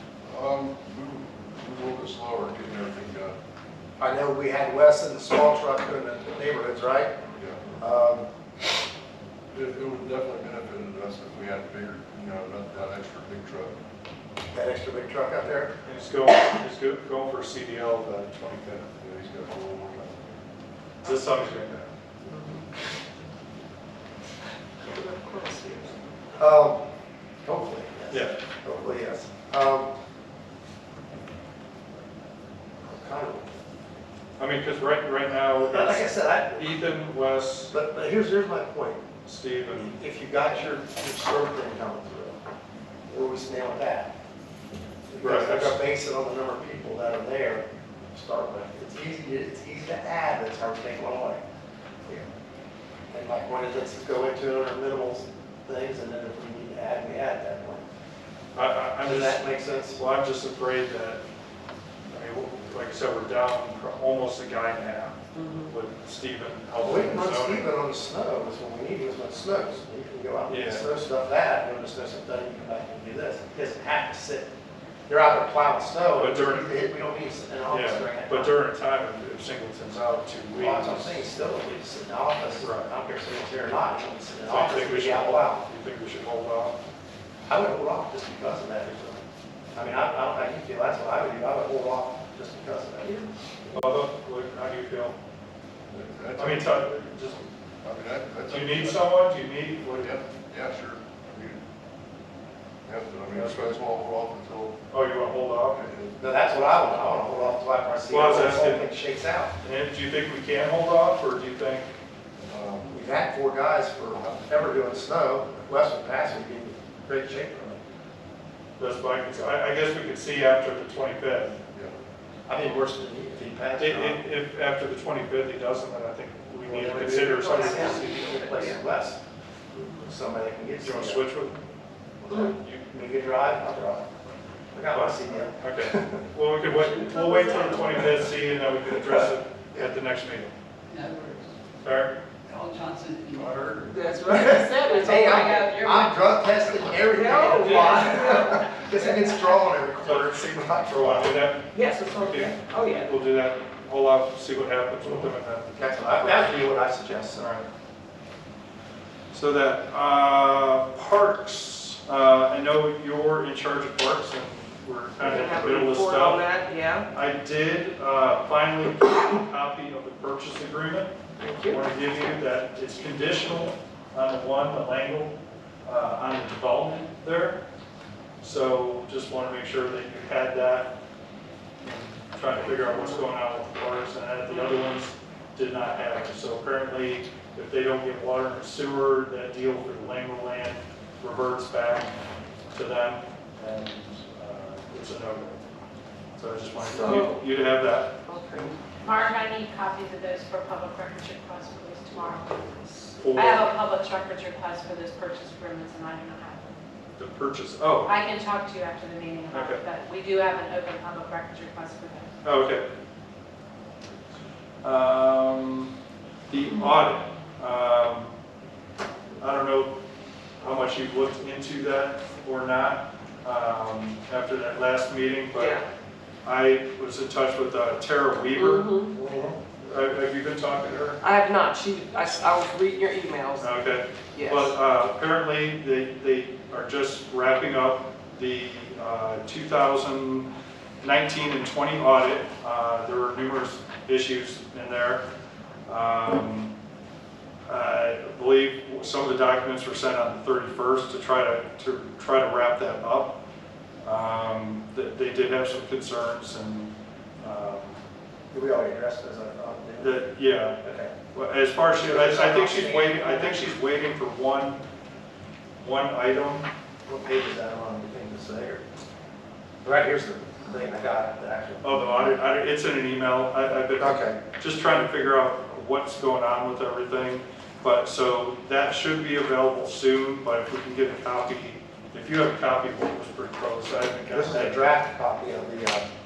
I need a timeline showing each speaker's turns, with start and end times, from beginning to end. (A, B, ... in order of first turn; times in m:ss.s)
0:00.3-0:03.4 A
0:04.0-0:07.1 B
0:07.4-0:07.6 A
0:07.8-0:08.3 B
0:09.5-0:13.8 A
0:14.5-0:15.7 B
0:15.8-0:18.9 C
0:19.0-0:20.4 A
0:21.0-0:21.8 C
0:22.3-0:22.6 D
0:24.8-0:26.2 D
0:26.4-0:26.8 B
0:27.4-0:29.9 B
0:28.1-0:28.4 C
0:32.8-0:33.5 B
0:34.4-0:37.7 C
0:35.6-0:36.9 B
0:37.7-0:39.0 B
0:39.3-0:39.9 C
0:39.7-0:42.4 B
0:43.1-0:44.1 B
0:45.1-0:51.4 B
0:45.2-0:45.8 C
0:53.1-0:57.9 B
0:58.6-1:01.2 C
0:59.0-1:00.0 B
1:02.1-1:07.7 C
1:05.4-1:05.7 D
1:06.8-1:14.5 B
1:10.5-1:10.9 C
1:15.1-1:18.6 B
1:16.2-1:16.7 C
1:17.7-1:21.3 C
1:19.9-1:25.7 B
1:22.6-1:22.9 C
1:24.5-1:26.8 C
1:27.5-1:29.2 B
1:29.7-1:33.8 B
1:33.7-1:35.2 C
1:35.9-1:36.9 A
1:36.4-1:37.5 C
1:37.8-1:39.1 A
1:38.5-1:40.2 C
1:40.0-1:41.6 A
1:42.9-1:44.8 A
1:43.3-1:43.8 C
1:44.9-1:45.8 C
1:45.7-1:46.2 A
1:46.2-1:49.5 B
1:48.1-1:48.9 C
1:49.6-1:51.9 C
1:52.4-1:53.1 A
1:52.9-1:57.8 B
1:54.1-1:54.6 A
1:58.8-2:01.6 C
2:01.7-2:02.0 A
2:02.5-2:04.2 B
2:03.8-2:08.3 C
2:06.7-2:09.2 B
2:07.4-2:08.8 D
2:09.8-2:10.1 D
2:10.0-2:11.3 B
2:10.8-2:11.6 C
2:12.2-2:14.1 B
2:14.7-2:16.2 B
2:14.9-2:20.5 C
2:17.1-2:17.8 D
2:19.1-2:19.9 B
2:20.9-2:21.5 E
2:21.8-2:22.2 C
2:22.5-2:23.5 E
2:23.3-2:24.1 A
2:23.9-2:26.0 D
2:24.3-2:31.4 B
2:24.8-2:26.2 E
2:27.1-2:28.8 D
2:30.0-2:36.7 C
2:31.7-2:33.1 D
2:35.7-2:37.5 B
2:37.4-2:37.7 C
2:39.3-2:46.5 C
2:45.2-2:47.1 D
2:47.1-2:51.1 C
2:51.4-2:51.8 D
2:51.6-2:57.6 C
2:58.4-3:00.9 C
3:01.8-3:12.1 C
3:02.8-3:03.1 D
3:12.7-3:15.6 C
3:16.4-3:18.2 C
3:16.8-3:17.4 D
3:18.3-3:19.3 D
3:19.0-3:22.6 F
3:22.1-3:23.2 D
3:23.2-3:23.7 C
3:23.3-3:26.8 F
3:27.2-3:28.1 C
3:28.0-3:32.3 F
3:29.5-3:29.8 C
3:32.4-3:32.9 C
3:34.8-3:35.9 C
3:36.5-3:38.3 C
3:39.4-3:39.9 C
3:40.6-3:45.8 C
3:45.5-3:45.8 D
3:46.4-3:49.2 C
3:48.6-3:49.1 D
3:49.2-3:49.6 B
3:49.8-3:51.2 C
3:51.2-3:53.8 D
3:53.6-4:00.5 C
3:54.3-3:54.8 D
4:01.0-4:05.2 C
4:05.9-4:06.7 C
4:07.7-4:13.4 C
4:14.0-4:18.0 C
4:18.5-4:20.3 B
4:20.0-4:20.8 C
4:20.8-4:21.2 B
4:21.3-4:24.8 C
4:22.0-4:23.7 B
4:25.8-4:26.7 C
4:27.1-4:28.8 B
4:29.8-4:32.3 B
4:31.8-4:44.8 C
4:34.0-4:34.4 B
4:44.3-4:46.1 B